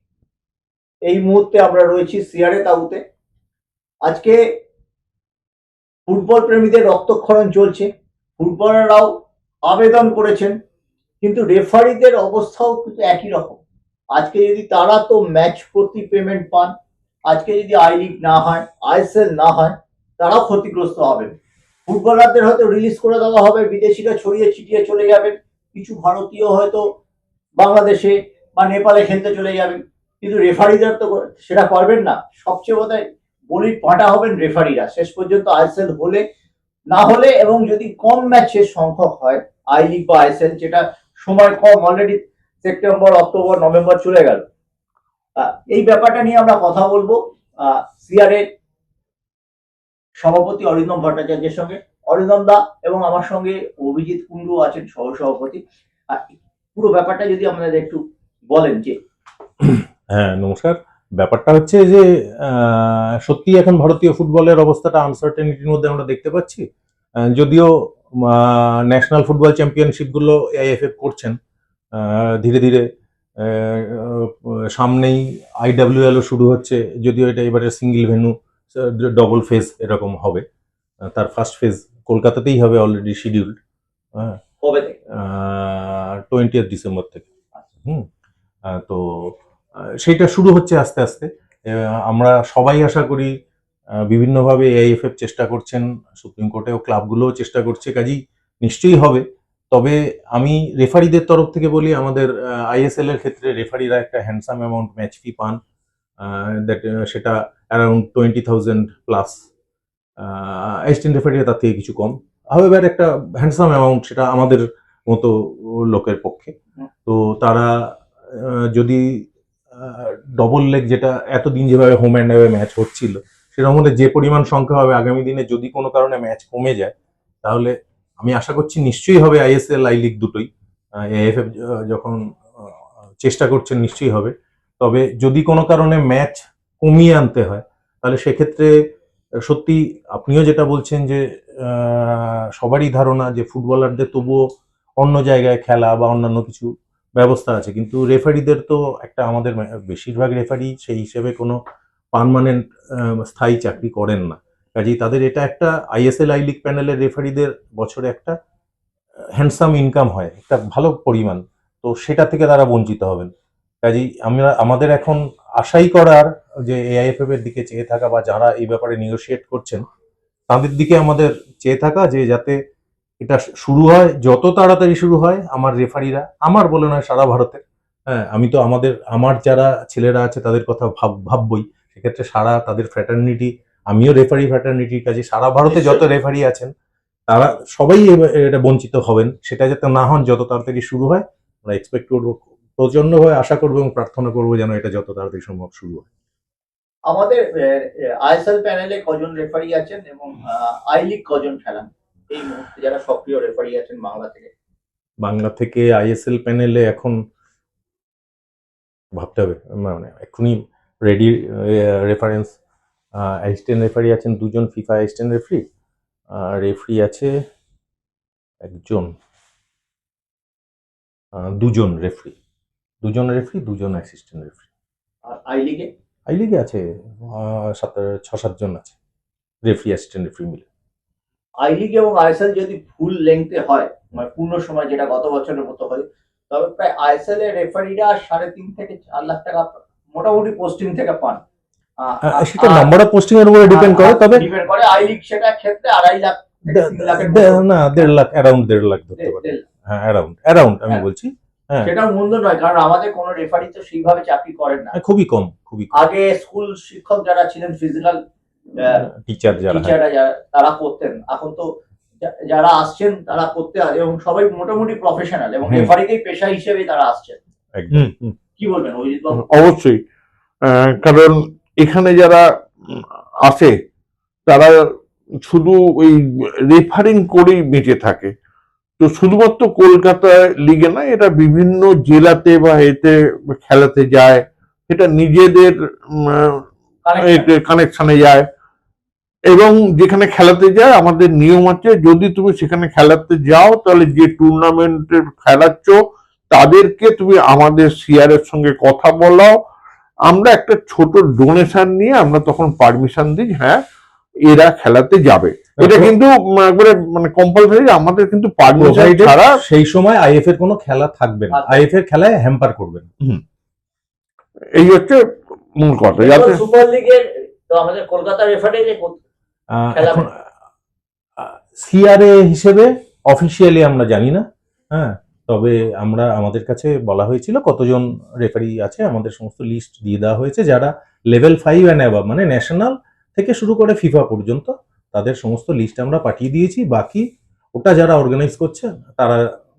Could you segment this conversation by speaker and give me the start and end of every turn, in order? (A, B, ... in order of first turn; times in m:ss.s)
0:01.0-0:03.0 A
0:04.0-0:04.4 A
0:06.1-0:07.9 A
0:08.4-0:09.1 A
0:09.6-0:10.6 A
0:11.2-0:13.6 A
0:14.1-0:16.7 A
0:17.3-0:21.3 A
0:21.9-0:26.9 A
0:27.6-0:36.2 A
0:36.9-0:44.4 A
0:45.4-0:48.4 A
0:50.2-0:58.0 A
0:58.5-0:59.0 A
0:59.6-1:06.6 B
1:07.2-1:11.3 B
1:11.9-1:12.8 B
1:13.4-1:20.4 B
1:21.1-1:23.5 B
1:24.6-1:25.0 A
1:25.2-1:27.3 B
1:28.7-1:29.3 B
1:30.0-1:33.3 B
1:34.1-1:45.6 B
1:46.2-1:49.4 B
1:50.2-1:56.5 B
1:57.0-1:57.8 B
1:58.3-1:59.2 B
1:59.7-2:10.5 B
2:11.1-2:18.7 B
2:19.4-2:24.4 B
2:25.0-2:31.6 B
2:32.1-2:38.3 B
2:39.4-2:43.3 B
2:43.8-2:49.8 B
2:50.5-2:52.6 B
2:53.2-3:06.7 B
3:05.6-3:06.0 A
3:07.3-3:16.1 B
3:17.1-3:24.5 A
3:25.2-3:27.2 B
3:29.1-3:32.6 B
3:33.2-3:35.6 B
3:36.3-3:37.3 B
3:38.6-3:39.1 B
3:41.4-3:42.4 B
3:43.0-3:44.6 B
3:45.2-3:45.9 A
3:46.3-3:49.0 B
3:49.6-3:50.6 B
3:51.6-4:01.4 A
4:02.0-4:02.9 A
4:02.2-4:04.5 B
4:03.7-4:08.1 A
4:06.7-4:11.9 B
4:09.2-4:09.6 A
4:11.8-4:14.9 A
4:14.9-4:16.0 B
4:15.9-4:18.2 A
4:18.8-4:19.0 A
4:19.1-4:19.9 B
4:19.7-4:21.7 A
4:22.2-4:27.4 A
4:25.6-4:25.9 B
4:27.7-4:28.3 B
4:28.6-4:29.4 A
4:29.4-4:30.0 C
4:30.6-4:33.7 C
4:34.5-4:34.7 C
4:35.4-4:38.3 C
4:39.0-4:46.6 C
4:47.0-4:47.5 A
4:47.2-4:48.4 C
4:49.5-4:56.0 C
4:56.5-4:59.5 C
5:00.2-5:03.8 C
5:04.4-5:09.6 C
5:05.8-5:06.1 B
5:08.7-5:13.1 B
5:11.5-5:11.8 A
5:14.7-5:15.2 C
5:15.8-5:16.6 C
5:16.1-5:19.2 A
5:19.7-5:20.3 B
5:19.9-5:20.2 A
5:21.4-5:39.4 B